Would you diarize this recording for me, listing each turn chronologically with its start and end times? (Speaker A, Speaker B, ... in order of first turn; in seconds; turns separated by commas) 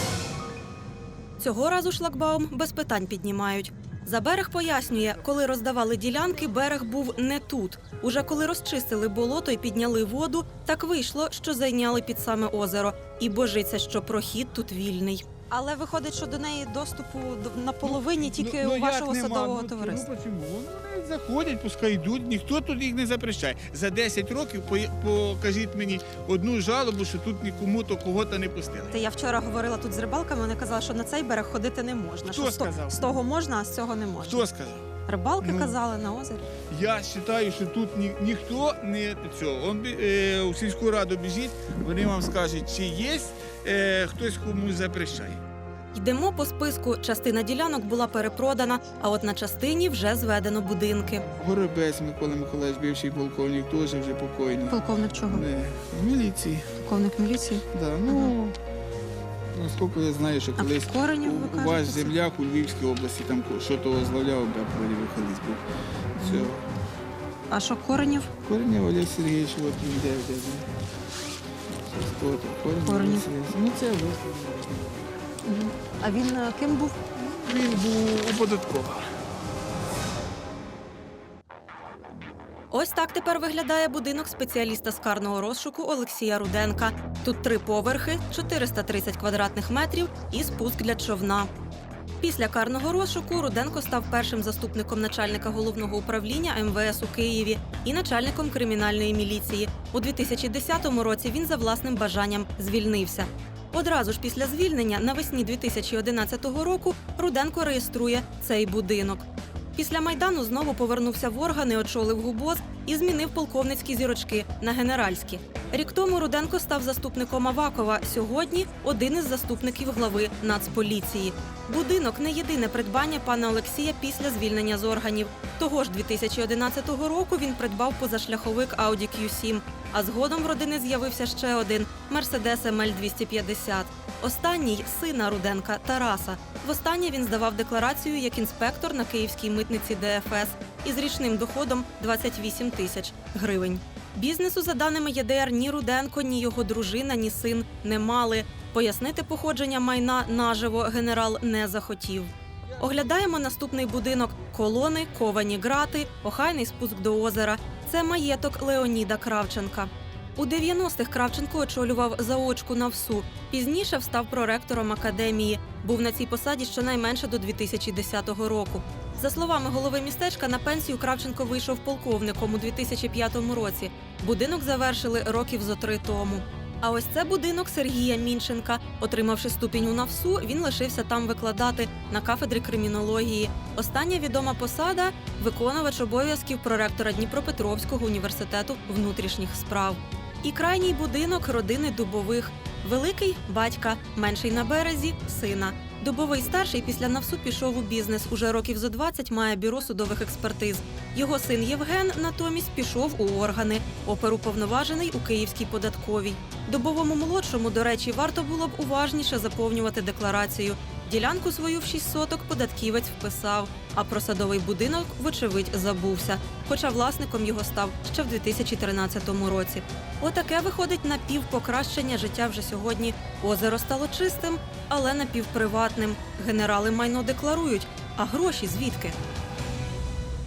Speaker A: 1.4-15.4, Speaker B: 15.5-20.0, Speaker C: 17.8-28.9, Speaker B: 28.9-34.5, Speaker C: 32.3-33.0, Speaker C: 34.2-34.9, Speaker B: 35.0-36.5, Speaker C: 35.4-35.7, Speaker C: 36.7-45.4, Speaker A: 45.9-51.2, Speaker C: 51.4-56.7, Speaker B: 54.7-55.4, Speaker B: 56.8-58.3, Speaker C: 57.6-58.5, Speaker C: 59.5-65.6, Speaker B: 60.6-62.2, Speaker C: 66.1-66.6, Speaker B: 66.2-66.5, Speaker B: 67.5-68.3, Speaker C: 68.4-70.7, Speaker C: 71.7-74.9, Speaker B: 72.9-73.2, Speaker B: 75.5-77.0, Speaker C: 77.1-79.0, Speaker A: 82.7-91.5, Speaker A: 92.2-229.2